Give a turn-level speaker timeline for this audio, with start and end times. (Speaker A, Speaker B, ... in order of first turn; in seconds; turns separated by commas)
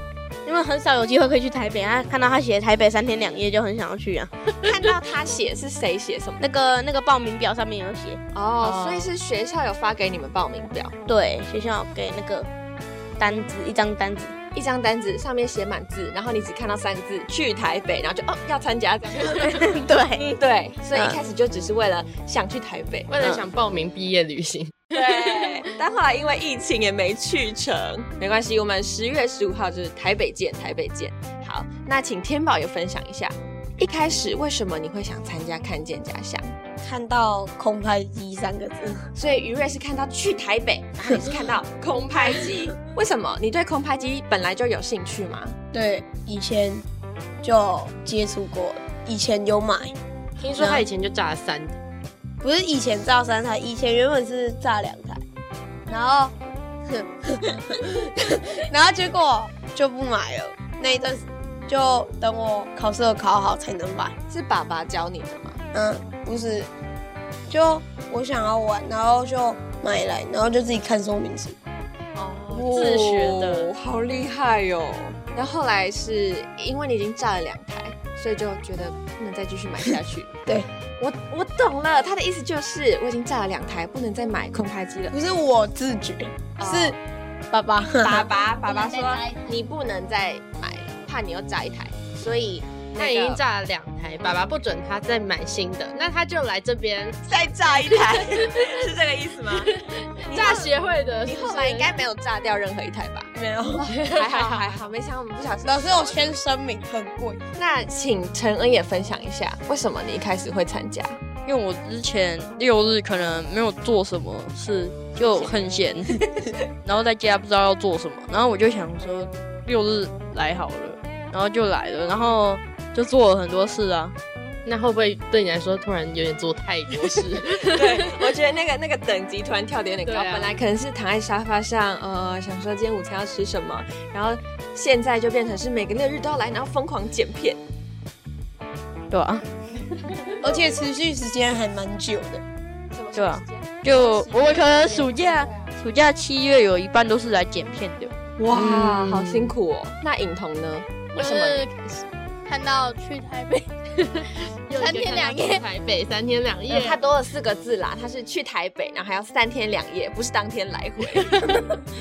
Speaker A: 0.5-4.3, Speaker B: 4.6-6.4, Speaker A: 6.4-8.2, Speaker B: 8.3-10.9, Speaker C: 8.6-9.1, Speaker A: 11.1-12.5, Speaker A: 13.2-14.4, Speaker B: 14.5-23.1, Speaker A: 19.6-20.4, Speaker C: 23.1-25.3, Speaker B: 24.9-36.5, Speaker D: 36.8-39.1, Speaker B: 39.2-45.6, Speaker D: 45.7-46.9, Speaker D: 47.4-49.9, Speaker C: 50.4-51.8, Speaker D: 52.4-55.2, Speaker D: 55.9-56.4, Speaker D: 56.9-64.2, Speaker B: 64.3-65.6, Speaker D: 65.7-66.7, Speaker D: 67.5-71.6, Speaker B: 72.2-80.3, Speaker C: 72.3-73.7, Speaker B: 81.0-85.2, Speaker D: 85.1-87.0, Speaker B: 86.6-87.0, Speaker D: 87.5-88.3, Speaker B: 88.0-93.4, Speaker C: 93.0-98.8, Speaker B: 97.3-100.7, Speaker C: 99.5-102.0, Speaker B: 101.2-103.3, Speaker D: 103.3-104.0, Speaker B: 103.9-106.3, Speaker C: 104.0-104.8, Speaker D: 105.6-107.4, Speaker B: 107.6-111.2, Speaker E: 111.5-116.2, Speaker E: 116.8-124.2, Speaker C: 124.7-128.1, Speaker B: 127.4-137.6, Speaker C: 130.1-130.5, Speaker A: 139.1-139.4, Speaker D: 140.4-142.4, Speaker B: 142.9-145.7, Speaker E: 143.2-148.7, Speaker B: 148.5-151.7, Speaker F: 151.2-155.6, Speaker C: 154.7-157.0, Speaker B: 156.7-161.6